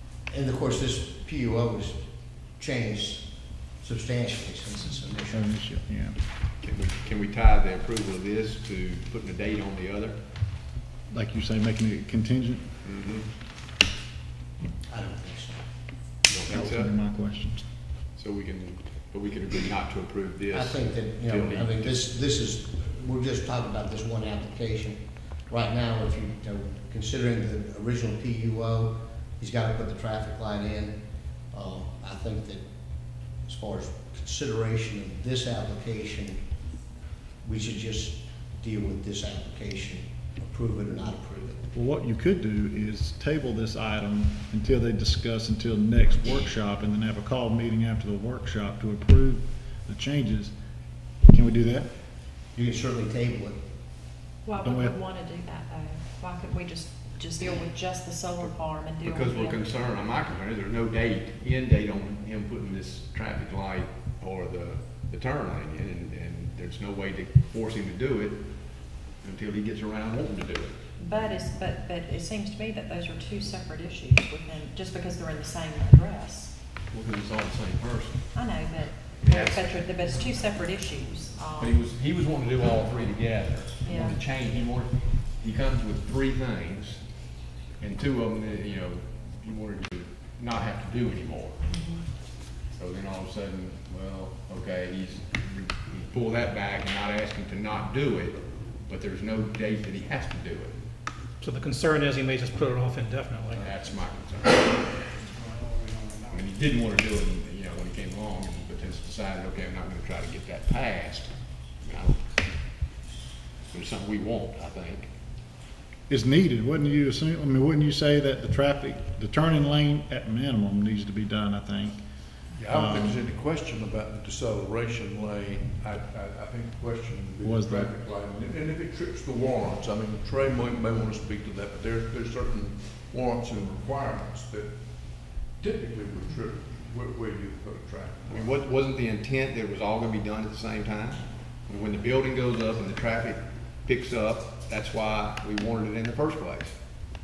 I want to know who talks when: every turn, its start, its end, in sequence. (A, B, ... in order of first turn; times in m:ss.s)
0:00.3-0:02.0 A
0:02.6-0:03.3 A
0:03.8-0:05.5 A
0:05.3-0:06.2 B
0:06.6-0:10.2 C
0:11.1-0:12.6 B
0:12.8-0:13.3 C
0:14.9-0:15.6 A
0:16.3-0:16.9 C
0:16.5-0:17.6 B
0:18.2-0:22.0 C
0:20.5-0:31.0 A
0:31.5-0:32.6 A
0:33.5-0:36.4 A
0:37.4-0:41.6 A
0:41.7-0:50.5 B
0:51.2-0:51.9 B
0:52.6-0:53.6 A
0:54.4-0:59.6 D
0:54.6-0:55.0 B
0:59.0-1:08.5 C
1:09.2-1:10.8 C
1:11.0-1:16.5 D
1:16.9-1:18.2 C
1:18.3-1:21.7 D
1:19.2-1:20.2 C
1:21.6-1:27.0 C
1:23.8-1:24.2 D
1:27.8-1:31.6 C
1:31.7-1:32.0 D
1:32.7-1:40.8 C
1:41.4-1:43.7 E
1:43.6-1:45.0 C
1:46.3-1:51.3 C
1:51.8-1:52.2 C
1:53.7-1:55.1 C
1:56.1-2:02.0 B
2:02.6-2:14.7 F
2:02.7-2:03.2 B
2:07.4-2:07.9 B
2:15.6-2:18.6 F
2:18.3-2:26.8 C